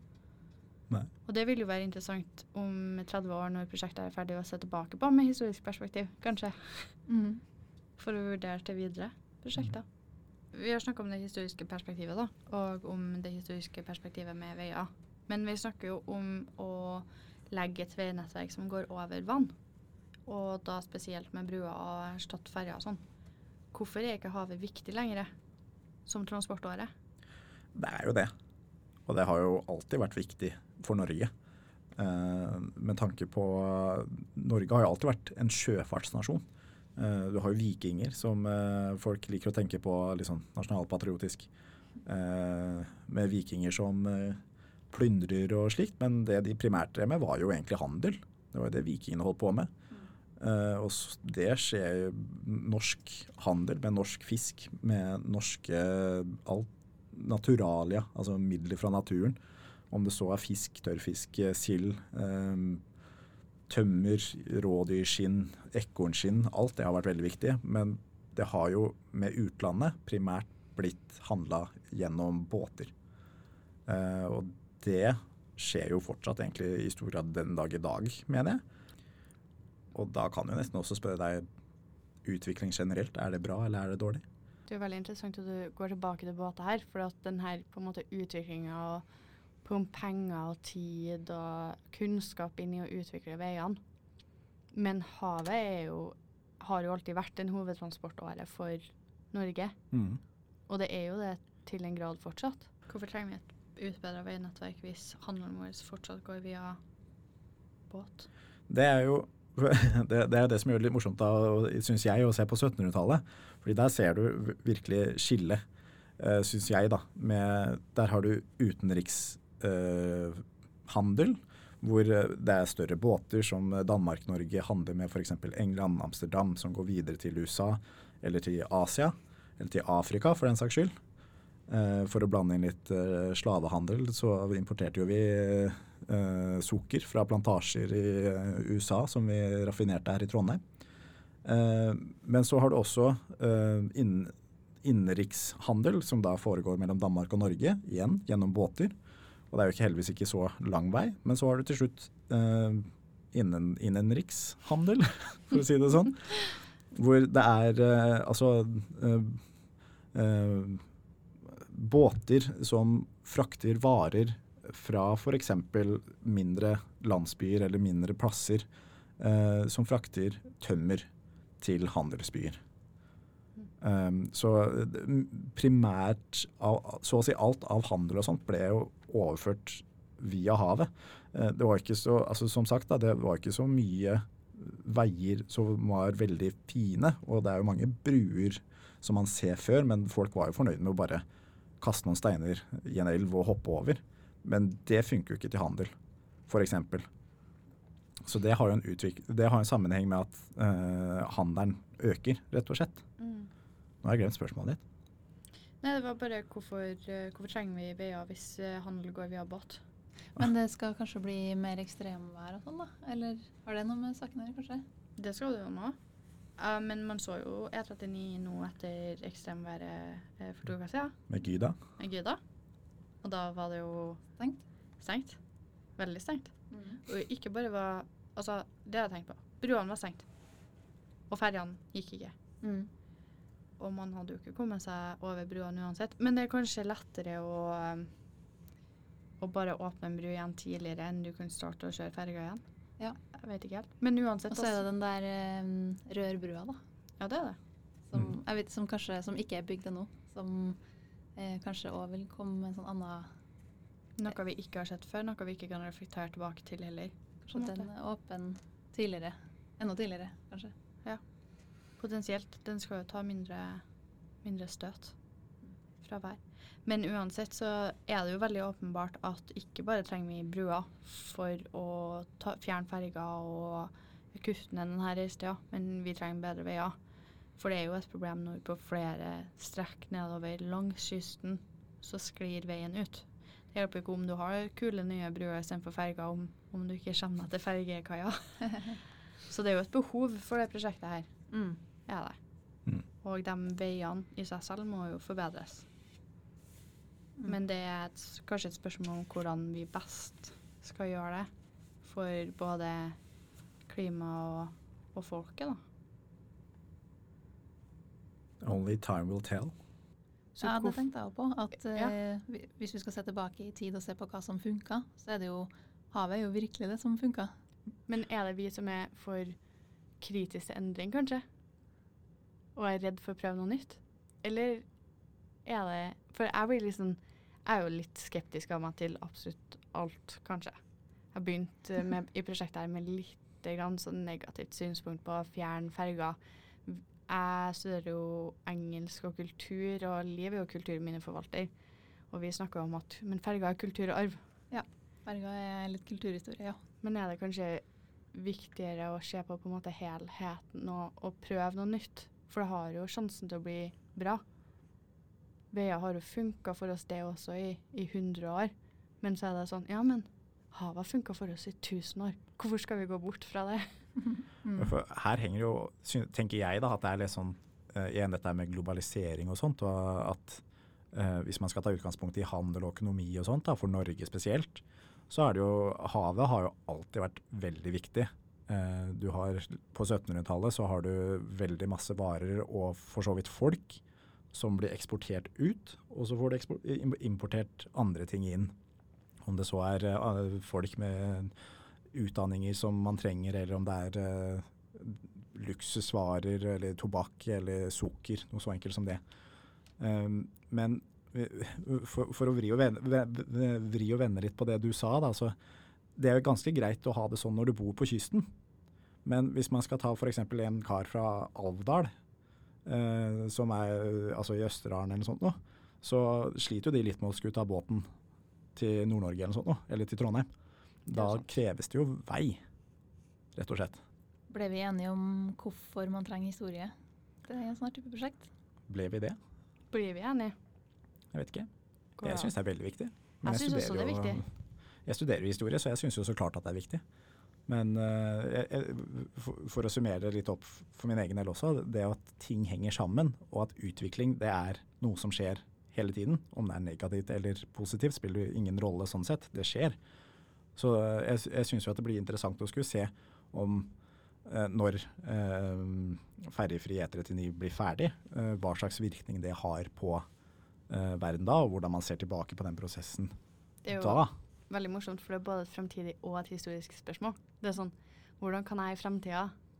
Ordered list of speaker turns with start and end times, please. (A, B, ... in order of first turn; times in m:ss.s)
0:01.2-0:07.0 A
0:07.1-0:07.4 B
0:08.0-0:09.8 A
0:10.5-0:19.5 A
0:20.2-0:23.0 A
0:23.7-0:25.3 A
0:26.0-0:26.9 A
0:27.8-0:28.3 C
0:29.1-0:31.3 C
0:32.0-0:36.4 C
0:37.0-0:41.5 C
0:42.0-0:44.4 C
0:44.9-0:49.7 C
0:50.4-0:59.4 C
0:59.9-1:02.8 C
1:03.7-1:12.9 C
1:13.9-1:18.6 C
1:19.9-1:21.4 C
1:22.2-1:24.2 C
1:24.7-1:29.0 A
1:29.6-1:33.8 A
1:34.7-1:39.8 A
1:39.9-1:40.2 C
1:40.7-1:46.8 A
1:47.9-1:48.3 A
1:48.7-1:55.6 C
1:56.2-2:10.9 C
2:11.7-2:20.6 C
2:21.4-2:24.3 C
2:24.8-2:28.9 C
2:29.5-2:39.4 C
2:40.1-2:40.8 C
2:41.5-2:48.6 C
2:49.2-2:51.1 C
2:51.6-2:52.6 C
2:53.8-3:11.2 C
3:11.8-3:15.9 C
3:16.5-3:17.0 C
3:18.2-3:23.0 C
3:23.2-3:23.5 A
3:24.0-3:24.8 C
3:25.8-3:29.8 A
3:30.3-3:34.8 B
3:35.2-3:36.0 A
3:36.6-3:41.2 A
3:41.3-3:41.8 C
3:42.0-3:42.4 A
3:43.2-3:44.2 A
3:44.4-3:44.6 B
3:45.0-3:45.4 A
3:46.0-3:50.3 A
3:46.7-3:47.0 B
3:51.3-3:52.3 A
3:52.6-3:52.9 B
3:53.8-3:58.1 A
3:59.4-4:02.6 A
4:03.3-4:04.8 A
4:04.5-4:06.8 B
4:07.2-4:07.6 A
4:08.1-4:10.8 B
4:11.4-4:13.3 B
4:14.2-4:17.9 A
4:17.4-4:20.7 B
4:22.0-4:23.8 A
4:24.4-4:25.1 A
4:26.0-4:37.0 A
4:37.6-4:51.3 A
4:51.5-4:51.8 B
4:52.0-4:52.4 A
4:53.2-4:55.9 A
4:57.4-5:01.5 A
5:02.0-5:03.2 A
5:03.9-5:05.8 A
5:08.6-5:09.7 C
5:10.5-5:11.0 A
5:10.6-5:17.5 B
5:18.1-5:19.6 A
5:20.2-5:21.4 A
5:22.8-5:24.9 A
5:25.6-5:30.8 A
5:31.3-5:41.7 A
5:42.3-5:44.4 A
5:44.7-5:46.8 B
5:47.0-5:54.4 A
5:55.7-6:04.0 A
6:04.8-6:10.6 C
6:11.1-6:24.0 C
6:24.5-6:28.7 C
6:29.4-6:31.5 C
6:32.1-6:39.2 C
6:40.0-6:45.5 C
6:46.2-6:48.5 C
6:49.2-6:52.1 C
6:52.8-6:58.0 C
6:58.8-7:00.5 C
7:01.0-7:02.6 C
7:01.1-7:01.4 A
7:03.6-7:04.0 C
7:04.5-7:06.9 B
7:07.4-7:08.5 B
7:08.9-7:09.4 C
7:09.9-7:10.5 A
7:11.3-7:11.7 C
7:12.2-7:12.5 A
7:12.2-7:14.5 C
7:13.4-7:14.4 A
7:15.0-7:17.0 C
7:17.7-7:30.0 C
7:30.8-7:33.9 C
7:34.5-7:40.2 C
7:40.9-7:43.3 C
7:43.8-7:49.5 A
7:43.9-7:44.3 C